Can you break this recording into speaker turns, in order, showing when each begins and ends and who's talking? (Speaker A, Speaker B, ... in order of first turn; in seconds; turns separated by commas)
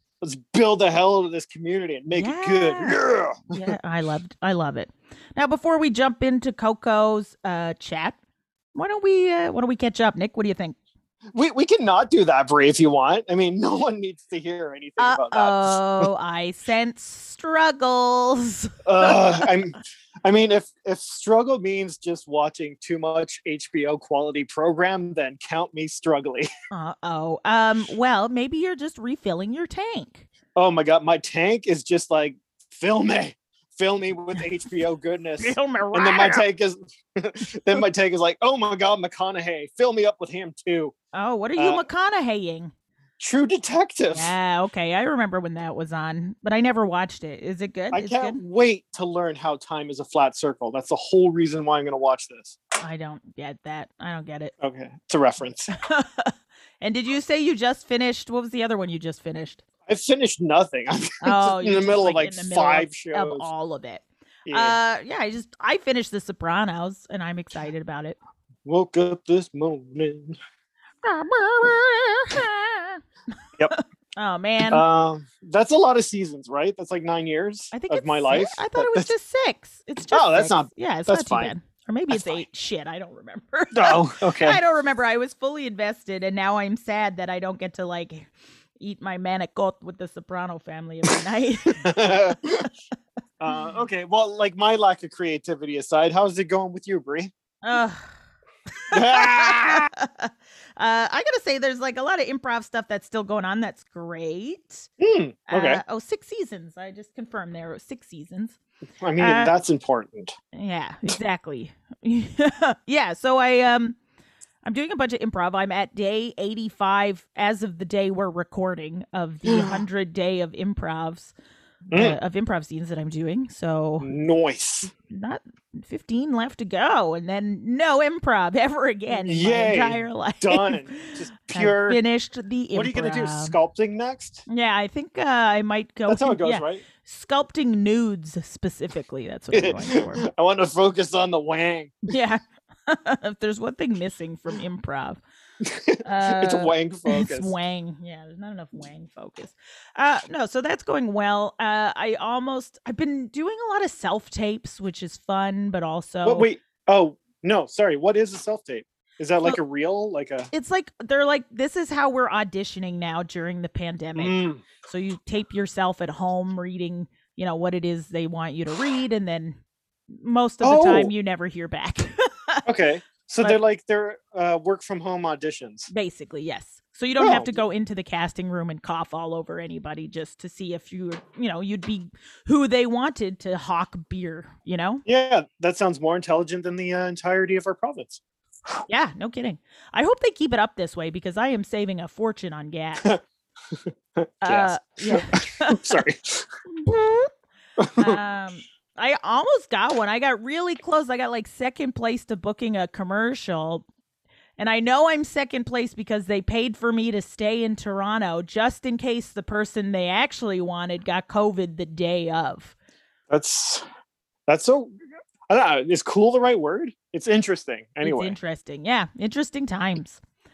Speaker A: 0.2-3.7, Speaker B: 2.1-3.0, Speaker B: 3.5-8.2, Speaker B: 8.7-10.8, Speaker A: 11.3-16.1, Speaker B: 15.0-19.2, Speaker A: 18.8-26.5, Speaker B: 26.7-30.3, Speaker A: 30.5-40.9, Speaker B: 35.4-36.4, Speaker B: 41.1-42.7, Speaker A: 41.6-41.8, Speaker A: 43.2-44.3, Speaker B: 44.1-48.4, Speaker A: 47.9-52.6, Speaker B: 52.8-54.5, Speaker A: 54.6-55.7, Speaker B: 55.8-59.6, Speaker A: 59.9-63.5, Speaker B: 61.2-68.2, Speaker A: 64.5-64.8, Speaker A: 68.6-70.4, Speaker B: 71.0-73.0, Speaker B: 73.7-74.8, Speaker A: 74.7-79.1, Speaker B: 77.7-91.9, Speaker A: 80.1-81.5, Speaker A: 82.1-82.4, Speaker A: 83.7-84.6, Speaker A: 91.8-92.7, Speaker A: 93.4-97.3, Speaker B: 93.5-93.8, Speaker B: 97.6-98.1, Speaker B: 98.9-104.9, Speaker A: 98.9-99.9, Speaker A: 105.0-105.8, Speaker B: 105.5-108.6, Speaker A: 109.0-110.3, Speaker B: 109.2-109.5, Speaker B: 110.5-114.0, Speaker B: 114.6-121.3, Speaker A: 119.5-119.8, Speaker A: 121.9-122.2, Speaker B: 121.9-124.1, Speaker A: 124.0-124.9, Speaker B: 125.1-133.6, Speaker A: 129.2-132.0, Speaker A: 132.7-134.4, Speaker B: 134.5-140.2, Speaker A: 136.1-136.8, Speaker A: 139.5-142.1, Speaker B: 142.1-145.2, Speaker A: 145.6-147.5, Speaker B: 146.0-156.5, Speaker A: 156.2-160.5, Speaker B: 160.5-169.6, Speaker A: 164.2-164.6, Speaker B: 170.1-172.6, Speaker A: 170.6-171.1, Speaker A: 172.6-175.9, Speaker B: 175.9-185.0, Speaker A: 177.2-177.5, Speaker A: 185.1-188.2, Speaker B: 188.9-193.1, Speaker A: 193.7-196.5, Speaker B: 194.4-196.0, Speaker B: 196.8-197.3, Speaker A: 197.8-198.2, Speaker B: 198.0-203.8, Speaker B: 204.6-212.7, Speaker A: 213.3-213.8, Speaker A: 214.5-214.9, Speaker A: 215.5-218.3, Speaker B: 218.0-220.2